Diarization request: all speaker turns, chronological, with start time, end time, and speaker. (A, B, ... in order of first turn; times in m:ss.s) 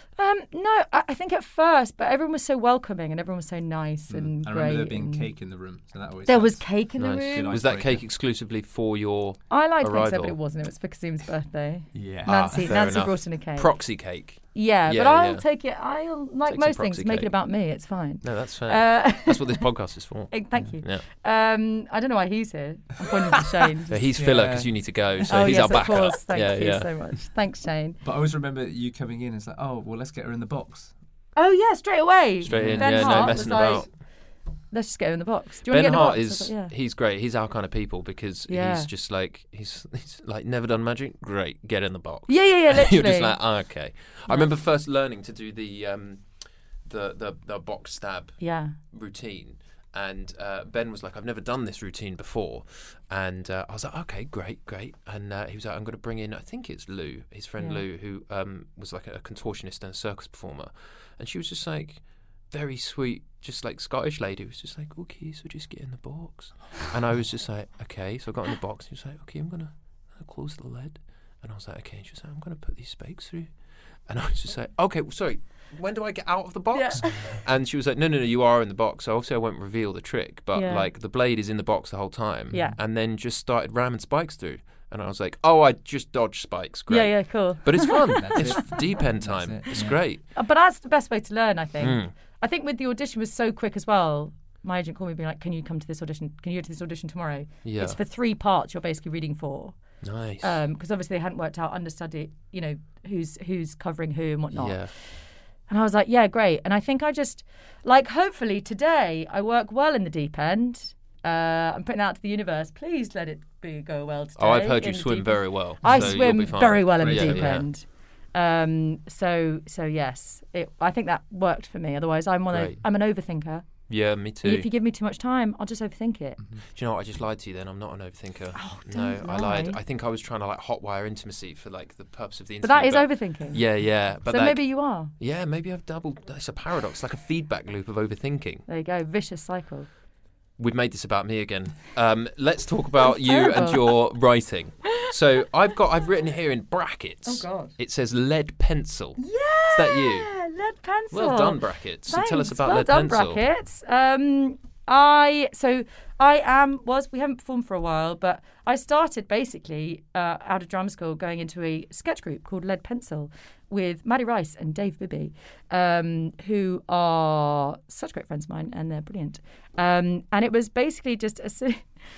0:00.2-0:05.3 A
0:04.1-0:08.0 B
0:06.3-0:07.5 A
0:07.0-0:10.4 C
0:09.5-0:13.8 A
0:11.9-0:12.7 B
0:12.3-0:15.4 C
0:14.5-0:19.6 A
0:16.5-0:17.3 C
0:18.2-0:21.0 C
0:20.3-0:24.0 A
0:23.9-0:26.9 C
0:24.1-0:26.0 B
0:25.3-0:28.0 A
0:28.0-0:30.9 B
0:31.4-0:33.9 A
0:32.4-0:33.6 B
0:32.4-0:33.9 C
0:34.7-0:36.7 A
0:35.7-0:46.2 C
0:38.5-0:38.9 A
0:42.3-0:43.4 A
0:46.8-1:30.2 C
0:48.4-0:48.8 A
1:16.7-1:17.4 A
1:20.5-1:20.9 A
1:22.5-1:22.8 A
1:26.9-1:28.6 A
1:28.2-1:30.0 B
1:30.3-1:39.8 A
1:31.8-1:32.1 C
1:37.6-1:38.0 C
1:40.0-1:40.6 C
1:40.4-1:44.9 A
1:44.5-1:44.9 C
1:45.7-2:03.9 A
1:54.4-1:57.7 C
1:55.8-1:56.2 B
1:57.0-1:57.6 B
2:02.5-2:02.8 C
2:03.9-2:04.7 C
2:04.4-2:06.4 A
2:06.7-2:18.6 C
2:08.6-2:09.8 A
2:12.6-2:13.7 A
2:14.2-2:15.1 A
2:18.7-2:19.9 A
2:20.6-2:30.3 C
2:23.0-2:24.0 A
2:27.3-2:27.7 A
2:29.2-2:51.8 A
2:31.1-2:33.4 C